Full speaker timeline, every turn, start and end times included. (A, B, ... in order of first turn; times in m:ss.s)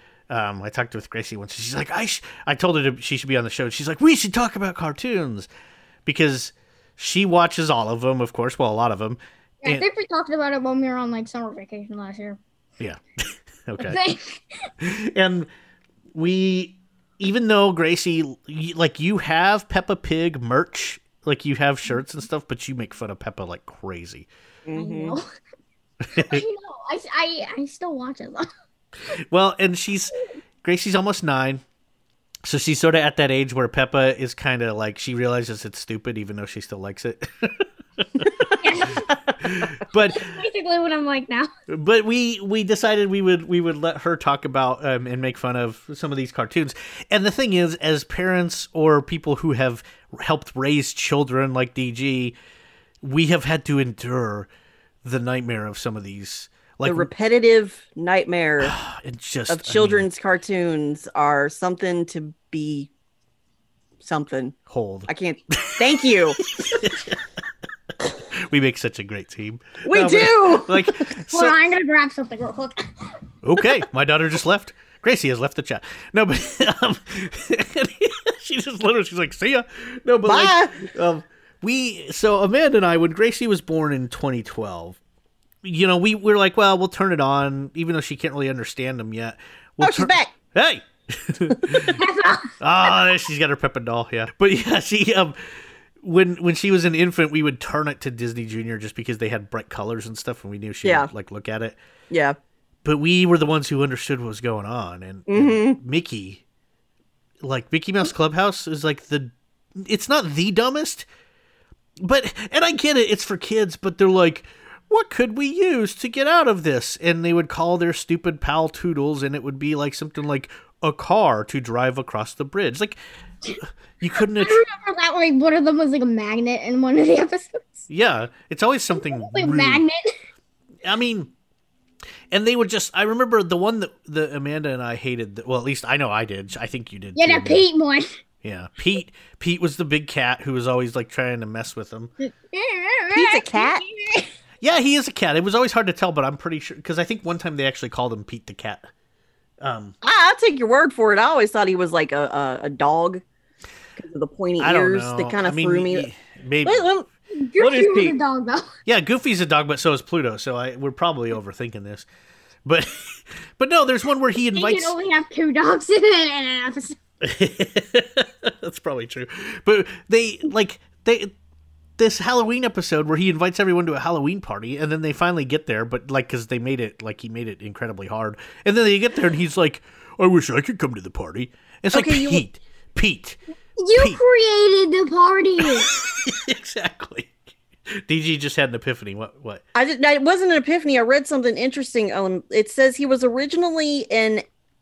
0:00.3-0:05.5 A
0:06.0-0:09.8 A
0:09.6-0:12.4 B
0:12.8-0:14.0 A
0:13.8-0:14.7 B
0:14.8-0:15.5 A
0:16.1-0:24.3 A
0:24.6-0:25.2 C
0:24.8-0:25.2 B
0:26.0-0:26.4 A
0:26.2-0:28.5 B
0:29.3-0:31.6 A
0:32.4-0:38.5 A
0:38.6-0:39.1 B
0:39.4-0:40.3 A
0:40.1-0:41.5 B
0:41.7-0:52.4 A
0:53.0-0:54.5 A
0:55.0-0:57.1 A
0:56.8-0:58.8 C
0:58.6-1:00.1 A
0:59.5-1:02.9 C
1:04.0-1:04.6 C
1:04.7-1:07.2 A
1:05.1-1:06.4 C
1:08.3-1:11.6 A
1:09.8-1:10.9 C
1:11.3-1:12.8 B
1:13.4-1:25.0 A
1:20.2-1:20.8 C
1:25.6-1:32.0 A
1:29.8-1:30.3 C
1:31.9-1:32.5 B
1:32.6-1:41.8 A
1:40.8-1:41.1 C
1:42.1-1:42.4 C
1:42.8-1:46.4 A
1:45.3-1:45.8 C
1:47.4-1:51.1 A
1:52.0-2:03.0 A
2:03.6-2:04.6 A
2:04.2-2:07.9 B
2:07.9-2:09.8 A
2:09.0-2:10.1 B
2:10.8-2:11.3 A
2:12.3-2:17.6 A
2:17.2-2:18.2 B
2:18.4-2:22.1 A
2:22.2-2:24.3 B
2:23.1-2:23.8 C
2:24.6-2:28.9 A
2:29.6-2:29.9 A
2:30.0-2:33.2 C
2:34.0-2:36.1 C
2:34.6-2:36.8 A
2:36.6-2:37.1 C
2:37.3-2:38.7 B
2:37.6-2:38.2 C
2:38.8-2:42.1 A
2:42.6-2:44.9 A
2:44.5-2:47.0 B
2:47.2-2:51.3 A
2:52.0-3:03.4 A
3:01.9-3:02.4 C
3:03.8-3:05.9 B
3:05.6-3:07.4 A
3:07.9-3:09.6 A
3:09.8-3:14.4 C